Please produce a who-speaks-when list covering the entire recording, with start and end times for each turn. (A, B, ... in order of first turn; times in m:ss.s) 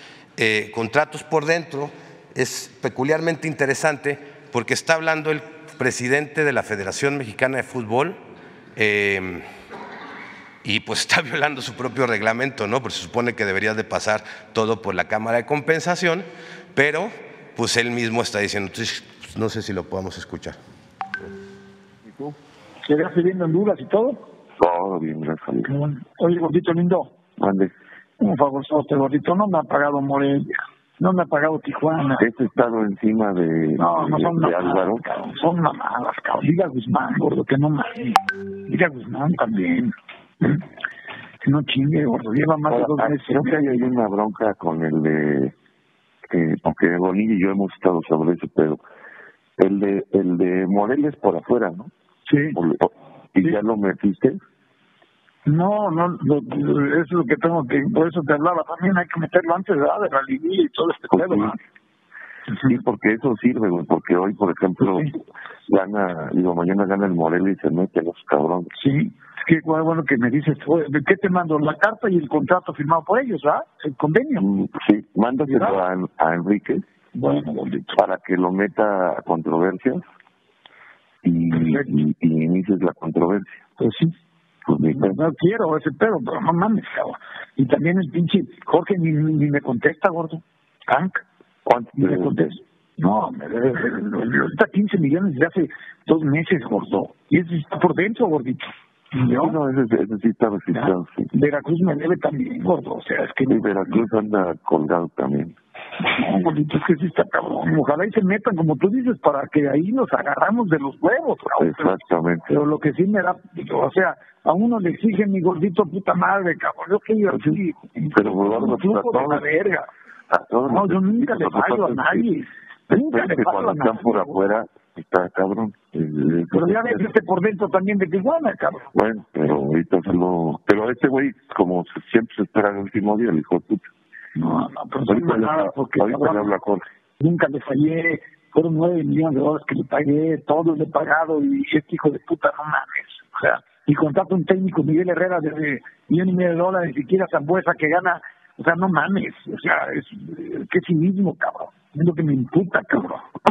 0:00.4-0:08.2 A
0:08.8-0:09.5 A
0:10.6-0:20.6 A
0:22.0-0:22.4 B
0:22.8-0:24.2 C
0:24.6-0:25.7 B
0:25.7-0:27.1 C
0:27.4-0:27.7 B
0:28.2-0:32.3 C
0:32.2-0:35.0 B
0:33.8-0:40.6 C
0:41.4-0:43.7 C
0:42.7-0:45.5 B
0:46.3-0:48.8 B
0:49.6-0:51.9 B
0:52.3-0:52.6 C
0:52.5-0:54.4 B
0:55.4-1:01.6 C
1:01.1-1:01.6 B
1:02.6-1:08.7 B
1:08.8-1:14.5 C
1:14.4-1:16.8 B
1:15.5-1:15.8 C
1:17.1-1:18.0 C
1:17.9-1:20.0 B
1:21.2-1:23.6 B
1:21.5-1:21.9 C
1:23.8-1:24.1 C
1:24.7-1:25.2 B
1:24.9-1:31.2 C
1:31.6-1:32.3 B
1:32.0-1:39.6 C
1:39.3-1:41.3 B
1:40.8-1:44.0 C
1:43.5-1:45.6 B
1:46.0-1:51.9 C
1:51.6-1:52.6 B
1:52.5-1:59.9 C
1:58.1-1:59.5 B
2:00.3-2:02.3 B
2:00.7-2:04.4 C
2:02.9-2:07.1 B
2:06.5-2:08.9 C
2:08.9-2:13.9 B
2:14.4-2:16.5 C
2:15.1-2:16.8 B
2:17.2-2:33.3 C